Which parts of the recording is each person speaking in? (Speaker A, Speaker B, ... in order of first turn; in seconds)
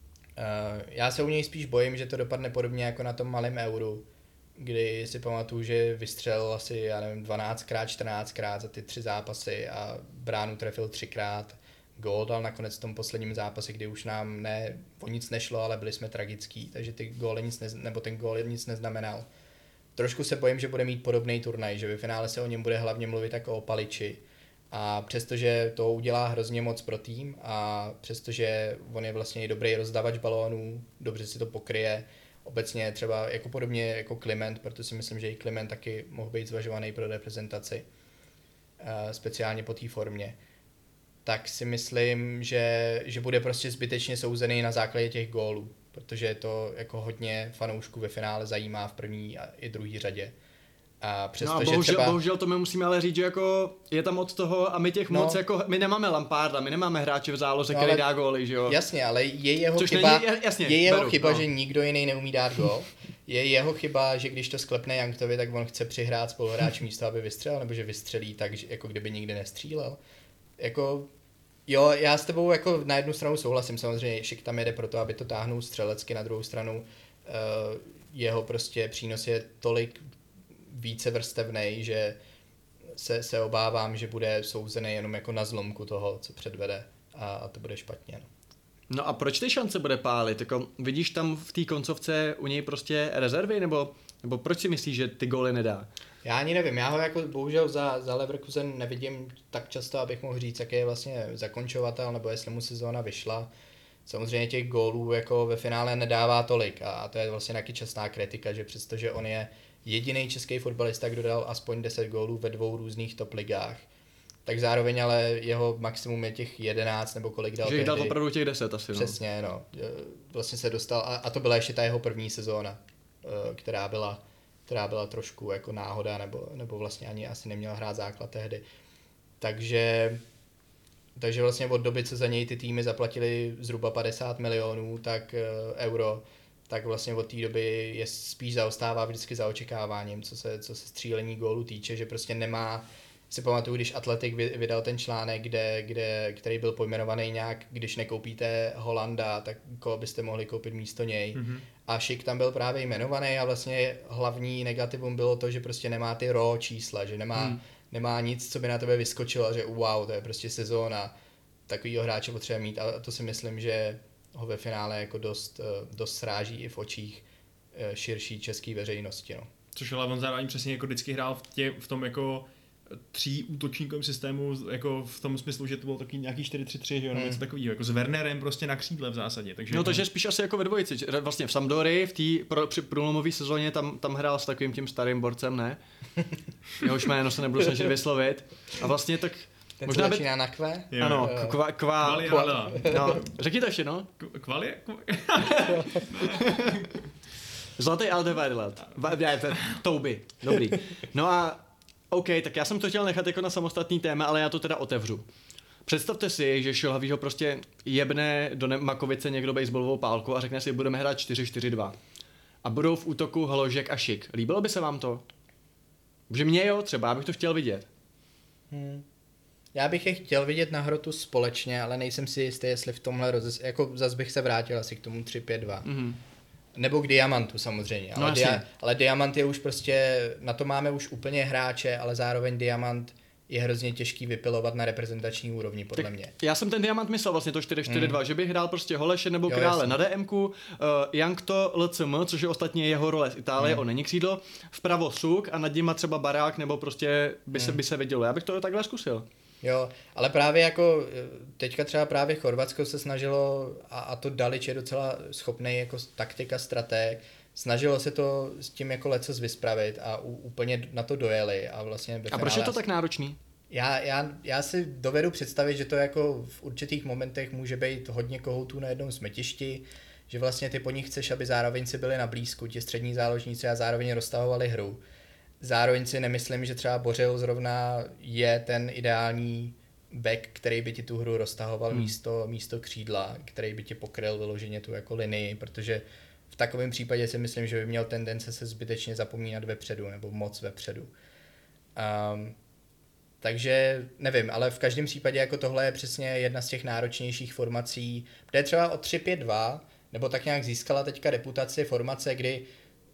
Speaker A: 0.4-19.3, 20.0-37.9, 38.8-40.4, 41.2-50.4, 51.0-52.2, 55.1-55.4, 57.7-58.0, 58.7-70.0, 70.6-71.1, 71.7-80.0, 80.6-82.2, 82.9-88.3, 96.2-103.5, 104.1-113.9, 114.5-118.2, 118.9-128.6, 129.4-130.2, 131.2-161.1, 161.7-169.5, 177.1-177.4, 189.8-191.6, 192.2-193.2, 218.7-219.1, 219.7-225.9, 226.8-236.3, 237.9-238.2, 239.5-239.9, 243.6-243.8, 247.5-247.8, 249.6-262.8, 263.7-275.0, 275.6-291.1, 292.0-292.6, 293.4-302.7
Speaker B: 51.4-58.8, 59.8-61.5, 88.9-95.9, 117.6-119.2, 179.7-185.8, 186.8-190.2, 191.0-194.1, 196.3-196.7, 197.8-205.3, 205.9-212.0, 212.6-215.2, 216.3-217.9, 225.8-226.2, 228.2-228.7, 236.4-249.2, 262.3-263.4
Speaker C: 151.3-151.6, 169.8-180.0, 190.9-191.3, 192.0-193.3, 194.2-197.0